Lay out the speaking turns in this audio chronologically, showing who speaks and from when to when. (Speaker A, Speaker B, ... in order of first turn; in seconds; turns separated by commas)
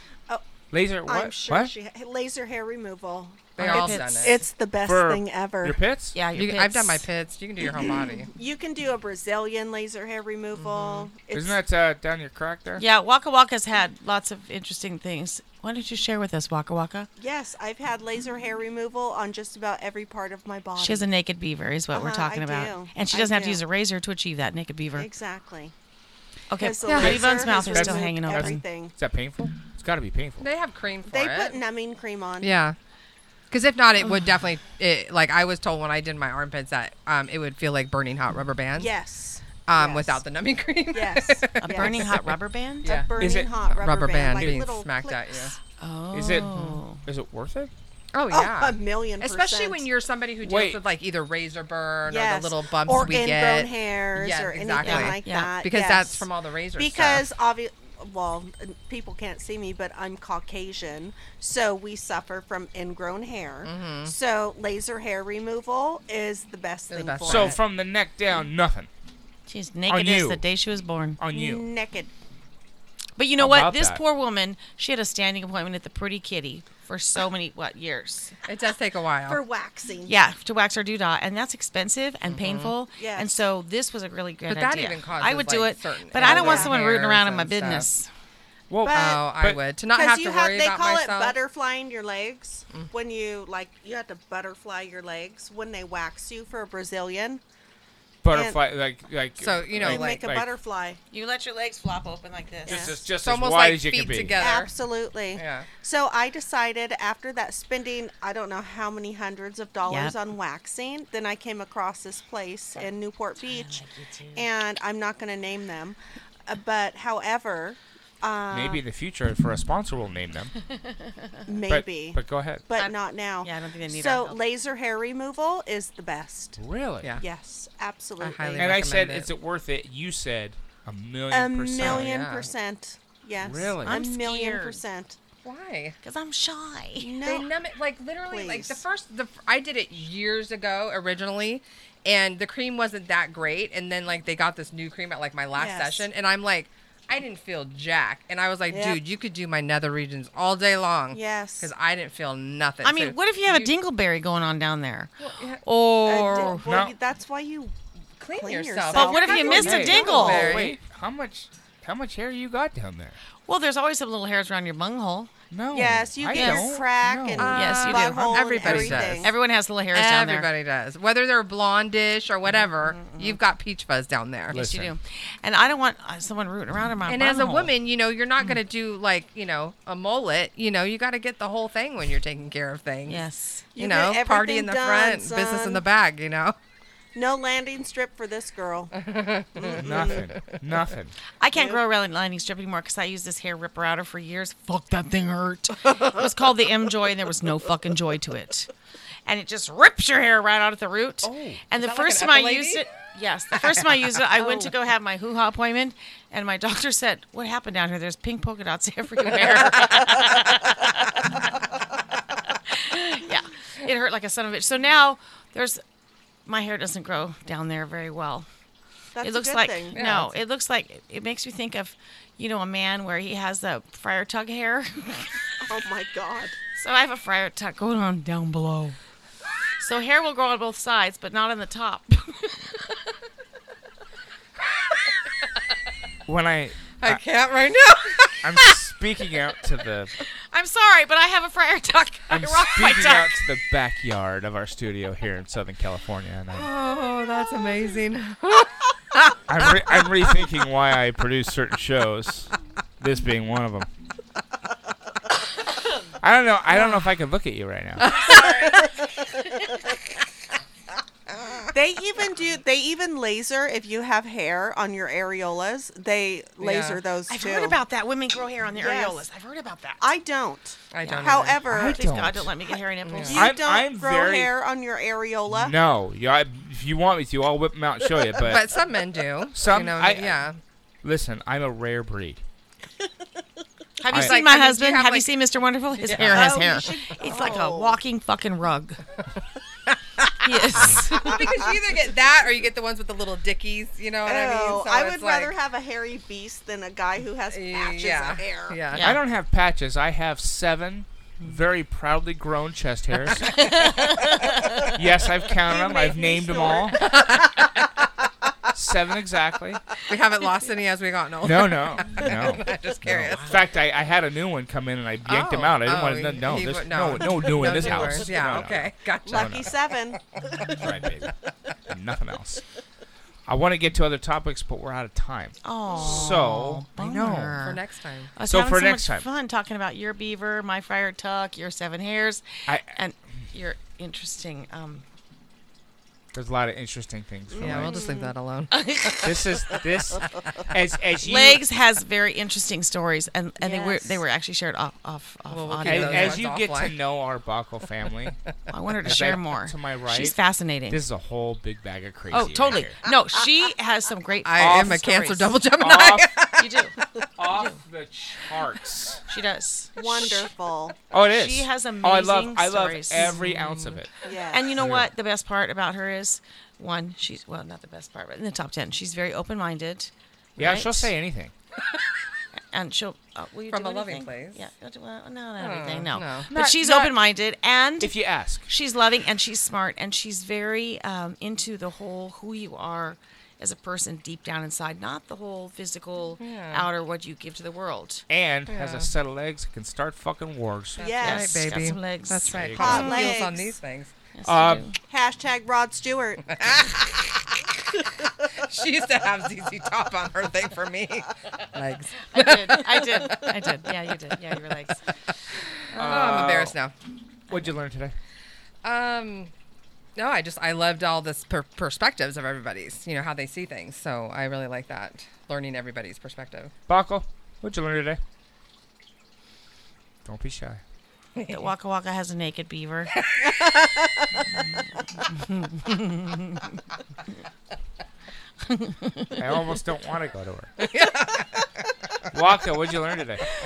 Speaker A: 0.7-1.7, Speaker B: 1.0-5.8, Speaker C: 3.6-4.4, Speaker D: 3.6-4.5, Speaker A: 4.8-6.2, Speaker D: 6.1-7.0, Speaker C: 6.3-8.3, Speaker B: 7.8-11.6, Speaker C: 10.6-11.1, Speaker A: 11.3-12.8, Speaker D: 12.8-17.1, Speaker B: 17.2-21.1, Speaker D: 20.8-25.1, Speaker B: 21.9-23.6, Speaker B: 25.0-25.7, Speaker D: 26.5-28.6, Speaker B: 26.6-28.9, Speaker C: 26.8-27.2, Speaker A: 27.7-30.5, Speaker C: 30.4-31.6, Speaker B: 31.1-32.5, Speaker C: 32.4-32.8, Speaker C: 33.5-38.9, Speaker B: 38.8-40.2, Speaker C: 39.6-45.5, Speaker B: 40.9-45.3, Speaker D: 41.6-42.9, Speaker A: 43.2-43.5, Speaker D: 45.8-47.0, Speaker A: 46.1-47.7, Speaker C: 46.5-46.8, Speaker C: 48.1-57.3, Speaker B: 48.3-49.9, Speaker A: 50.4-50.8, Speaker B: 52.1-67.6, Speaker D: 54.8-55.6, Speaker C: 63.6-64.1, Speaker C: 66.9-67.6, Speaker A: 67.2-68.9, Speaker D: 69.5-71.2, Speaker A: 69.9-70.4, Speaker A: 71.2-71.7, Speaker B: 71.3-72.1, Speaker D: 73.2-78.3, Speaker A: 73.4-74.0, Speaker C: 78.4-79.4, Speaker B: 79.3-80.2, Speaker D: 80.1-88.1, Speaker C: 82.3-82.7, Speaker B: 83.0-83.3, Speaker C: 84.5-87.9, Speaker B: 86.2-86.8, Speaker A: 88.7-89.6, Speaker B: 88.8-89.2, Speaker C: 88.9-91.3, Speaker B: 89.9-97.4, Speaker A: 98.2-100.5, Speaker B: 98.3-98.6, Speaker C: 99.4-100.2, Speaker B: 99.8-101.0, Speaker D: 101.1-103.0, Speaker A: 102.7-104.4, Speaker B: 102.7-103.0, Speaker C: 103.2-104.7, Speaker B: 104.3-113.8, Speaker C: 105.3-105.7, Speaker D: 109.8-110.1, Speaker D: 113.4-114.5, Speaker B: 114.3-118.8, Speaker A: 118.5-120.5, Speaker D: 120.8-121.4, Speaker B: 121.5-126.6, Speaker A: 121.7-122.6, Speaker D: 122.8-124.4, Speaker A: 126.6-127.1, Speaker B: 127.2-128.7, Speaker C: 128.2-129.3, Speaker A: 128.6-132.1, Speaker B: 131.3-135.2, Speaker C: 131.8-132.5, Speaker A: 133.4-134.0, Speaker D: 133.8-134.8, Speaker C: 135.4-136.0, Speaker D: 136.0-137.1, Speaker B: 137.0-137.5, Speaker C: 137.2-153.7, Speaker B: 138.3-138.8, Speaker B: 145.5-146.1, Speaker B: 148.7-149.0, Speaker B: 151.1-151.7, Speaker D: 152.8-155.1, Speaker C: 155.2-156.6, Speaker D: 155.6-156.6, Speaker B: 156.1-157.7, Speaker A: 156.6-156.9, Speaker C: 158.2-160.8, Speaker B: 158.3-160.5, Speaker D: 158.9-160.6, Speaker A: 159.6-163.2, Speaker D: 163.5-165.3, Speaker A: 165.5-167.6, Speaker B: 165.7-169.3, Speaker D: 166.3-166.7, Speaker C: 167.4-169.3, Speaker D: 167.4-170.5, Speaker C: 169.9-174.6, Speaker D: 172.9-173.4, Speaker A: 174.5-174.9, Speaker D: 174.5-177.7, Speaker C: 177.1-183.2, Speaker D: 183.1-183.7, Speaker B: 183.7-185.8, Speaker C: 183.8-186.6, Speaker B: 187.1-188.9, Speaker C: 188.9-190.5, Speaker B: 189.6-190.2, Speaker A: 189.8-191.1, Speaker D: 191.4-198.7, Speaker B: 191.5-191.8, Speaker D: 199.2-211.4, Speaker A: 201.2-201.6, Speaker C: 201.8-202.8, Speaker D: 212.7-215.8, Speaker D: 216.4-218.4, Speaker B: 219.1-220.3, Speaker D: 219.2-225.4, Speaker C: 219.9-220.3, Speaker B: 225.6-226.5, Speaker D: 226.7-229.0, Speaker D: 229.8-232.9, Speaker A: 236.2-237.2, Speaker C: 237.0-238.8, Speaker A: 238.4-240.1, Speaker D: 240.5-243.4, Speaker A: 242.3-246.7, Speaker C: 246.5-249.7, Speaker A: 249.5-253.9, Speaker A: 256.2-258.2, Speaker C: 258.0-258.9, Speaker B: 258.3-258.6, Speaker B: 261.7-267.8, Speaker C: 266.6-267.0, Speaker D: 267.3-270.0, Speaker B: 268.8-269.2, Speaker B: 270.0-272.0, Speaker C: 270.9-271.6, Speaker D: 271.1-273.5, Speaker A: 271.7-272.5, Speaker C: 273.0-273.5, Speaker B: 273.2-275.7, Speaker A: 273.3-274.6, Speaker A: 275.5-278.6, Speaker C: 278.4-280.6, Speaker A: 279.5-280.4, Speaker A: 281.0-282.4, Speaker D: 284.0-289.0, Speaker A: 284.1-284.4, Speaker C: 284.1-285.3, Speaker C: 286.0-286.7, Speaker B: 286.2-288.0, Speaker C: 289.9-295.5, Speaker D: 290.4-291.7, Speaker B: 294.2-298.8, Speaker C: 297.5-299.1, Speaker D: 298.9-299.2, Speaker A: 299.0-303.6, Speaker C: 303.5-304.6, Speaker D: 303.6-304.8, Speaker A: 304.8-307.1, Speaker B: 305.6-307.1, Speaker C: 306.9-307.6, Speaker A: 308.7-309.8, Speaker C: 310.1-313.6, Speaker A: 311.4-319.6, Speaker D: 315.3-315.7, Speaker C: 315.3-319.8, Speaker B: 319.2-320.9, Speaker C: 320.5-320.9, Speaker A: 320.7-321.3, Speaker A: 321.9-322.6, Speaker A: 323.4-327.6, Speaker D: 325.6-327.8, Speaker C: 327.6-328.3, Speaker D: 328.4-335.0, Speaker A: 328.4-329.2, Speaker A: 332.7-332.9, Speaker A: 336.3-338.1, Speaker B: 337.5-338.3, Speaker C: 337.6-339.4, Speaker D: 338.7-339.3, Speaker A: 339.2-341.6, Speaker D: 341.2-346.4, Speaker C: 343.6-344.2, Speaker C: 345.5-346.9, Speaker A: 345.9-348.3, Speaker D: 348.7-351.0, Speaker A: 349.0-350.4, Speaker A: 350.9-352.9, Speaker D: 352.3-356.9, Speaker C: 354.4-357.2, Speaker A: 354.6-354.9, Speaker A: 355.8-356.3, Speaker A: 357.4-359.2, Speaker D: 357.5-357.7, Speaker D: 359.3-360.5, Speaker B: 360.0-360.9, Speaker A: 361.1-364.1, Speaker D: 361.2-363.5, Speaker C: 363.1-364.0, Speaker B: 364.2-364.8, Speaker D: 364.5-371.1, Speaker A: 364.8-365.1, Speaker A: 370.6-371.5, Speaker D: 372.7-378.1, Speaker C: 373.7-374.6, Speaker C: 375.6-376.5, Speaker A: 376.5-377.2, Speaker A: 378.0-378.7, Speaker D: 378.6-388.2, Speaker C: 386.4-386.9, Speaker A: 388.3-391.0, Speaker C: 388.7-389.1, Speaker B: 391.0-391.6, Speaker C: 391.0-394.1, Speaker D: 391.2-393.4, Speaker A: 392.5-393.2, Speaker B: 392.8-393.8, Speaker D: 394.3-394.9, Speaker A: 394.4-394.9, Speaker B: 395.1-397.0, Speaker C: 396.5-404.1, Speaker D: 402.3-405.0, Speaker C: 405.9-406.9, Speaker A: 405.9-406.7, Speaker A: 407.5-408.1, Speaker C: 408.8-409.5, Speaker C: 410.1-416.7, Speaker A: 416.9-418.2, Speaker A: 420.2-420.8, Speaker C: 421.4-421.7, Speaker D: 421.5-423.1, Speaker C: 423.2-423.6, Speaker D: 425.7-426.6, Speaker D: 428.6-429.4, Speaker A: 429.4-430.7, Speaker C: 430.8-431.5, Speaker A: 432.3-433.4